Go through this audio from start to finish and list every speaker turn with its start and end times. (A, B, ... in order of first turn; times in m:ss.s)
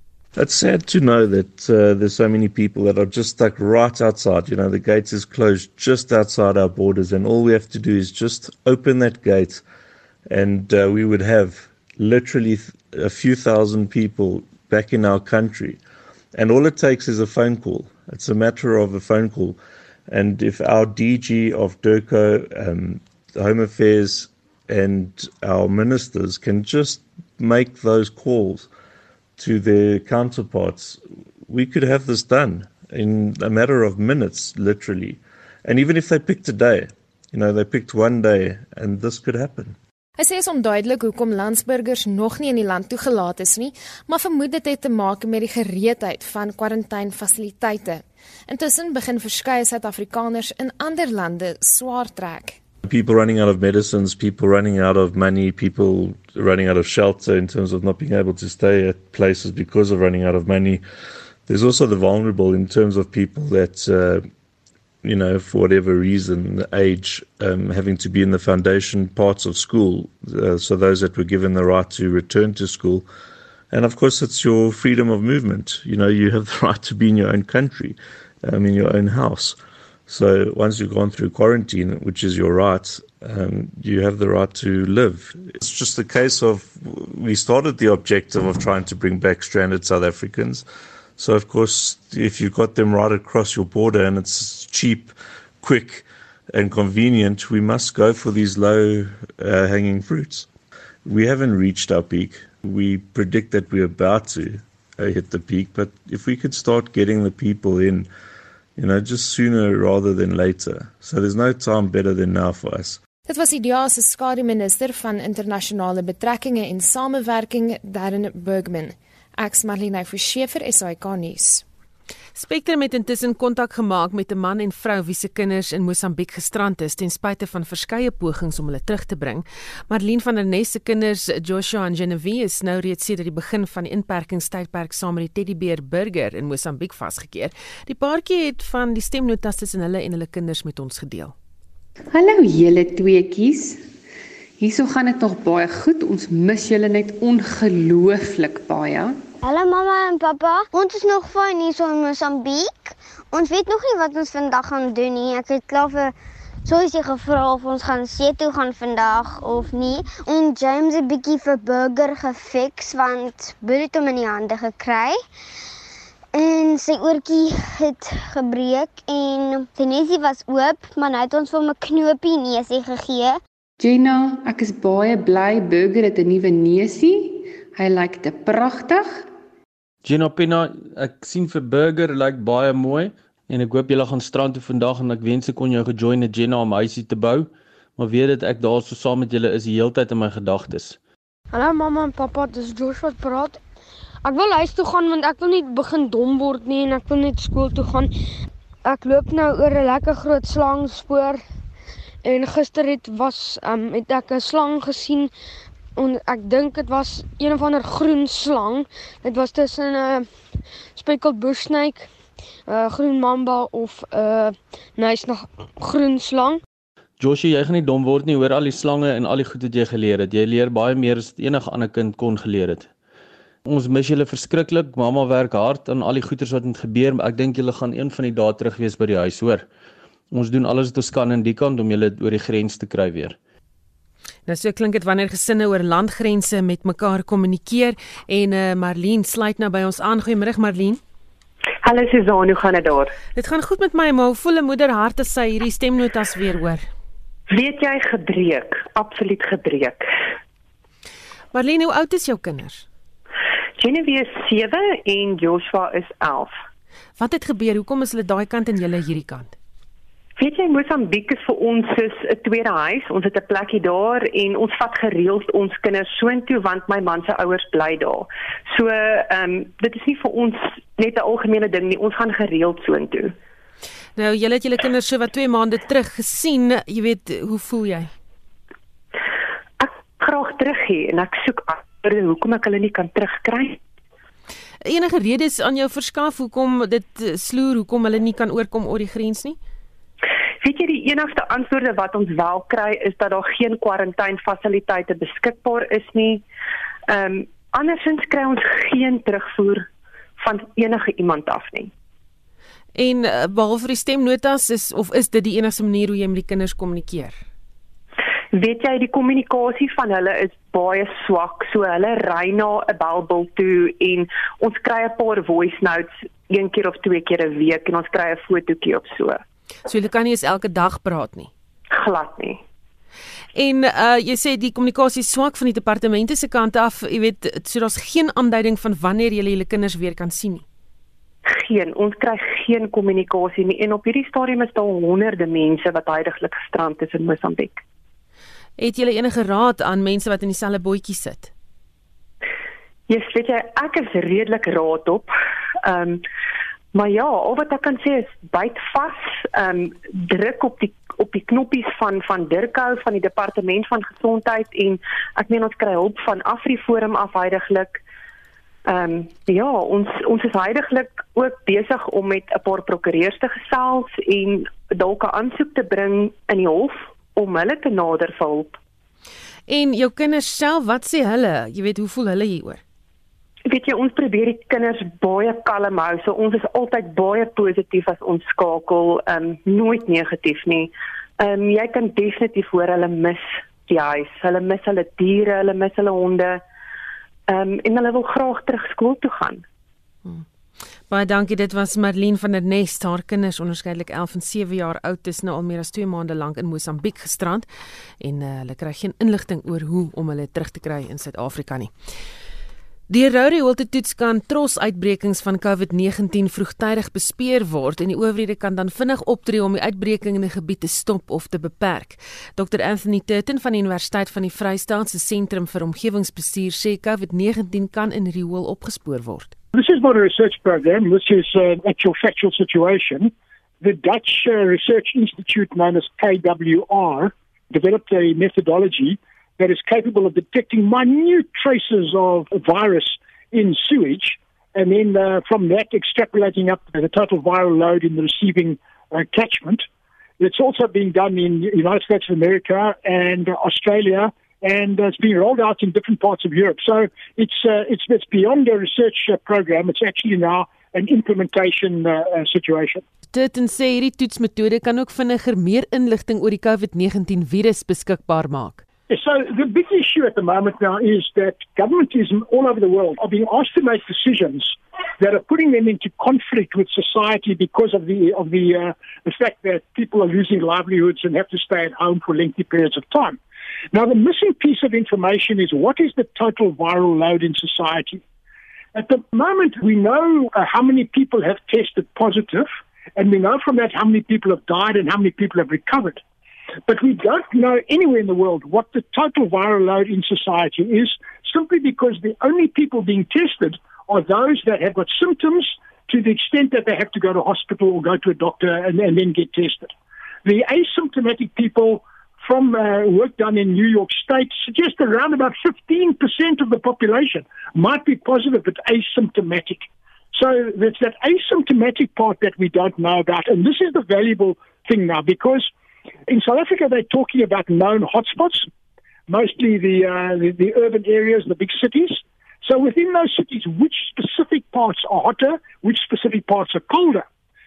0:00.4-0:09.6 A
0:10.3-0:15.8 A
0:16.3-0:28.7 A
0:29.4-0:39.8 A
0:40.2-0:52.6 B
0:52.8-1:00.8 A
1:01.5-1:04.2 A
1:05.0-1:13.1 A
1:13.7-1:19.6 A
1:20.1-1:30.6 A
1:31.2-1:40.5 A
1:41.0-1:48.1 A
1:48.8-1:53.0 A
1:53.3-2:01.6 B
2:02.3-2:21.3 C
2:22.1-2:23.8 D
2:24.6-2:29.2 D
2:29.4-2:36.1 E
2:36.6-2:45.2 E
2:46.3-2:53.4 E
2:53.8-2:59.2 D
3:00.0-3:11.0 F
3:11.5-3:13.6 G
3:14.2-3:18.1 G
3:18.8-3:21.4 G
3:22.2-3:25.3 G
3:26.0-3:30.3 G
3:31.0-3:32.1 G
3:32.7-3:36.6 G
3:37.2-3:42.9 F
3:43.7-3:49.7 F
3:50.3-3:53.4 F
3:54.5-4:01.0 C
4:01.8-4:03.1 H
4:03.3-4:06.9 C
4:07.5-4:10.0 H
4:11.5-4:12.8 C
4:13.8-4:16.5 H
4:17.2-4:19.5 C
4:20.4-4:33.3 H
4:34.2-4:38.1 C
4:39.8-4:43.8 H
4:44.8-4:49.6 C
4:50.6-4:56.4 H
4:57.1-4:59.9 H
5:00.4-5:01.9 H
5:02.9-5:07.4 C
5:08.5-5:19.4 H
5:19.9-5:21.5 C
5:22.0-5:22.6 H
5:23.5-5:30.6 C
5:31.5-5:37.8 H
5:38.8-5:41.5 C
5:43.1-5:45.3 H
5:45.8-5:46.2 H
5:46.9-5:58.0 H
5:58.9-6:08.8 H
6:09.7-6:12.8 C
6:13.7-6:26.6 H
6:27.5-6:29.6 H
6:31.1-6:37.7 C
6:38.2-6:41.9 C
6:43.1-6:59.5 C
6:59.7-7:19.8 I
7:20.4-7:33.0 I
7:33.3-7:38.8 C
7:39.1-7:53.4 I
7:53.9-7:58.2 I
7:58.9-8:06.2 I
8:06.9-8:19.9 I
8:20.4-8:35.7 I
8:36.3-8:38.7 I
8:39.3-8:47.2 I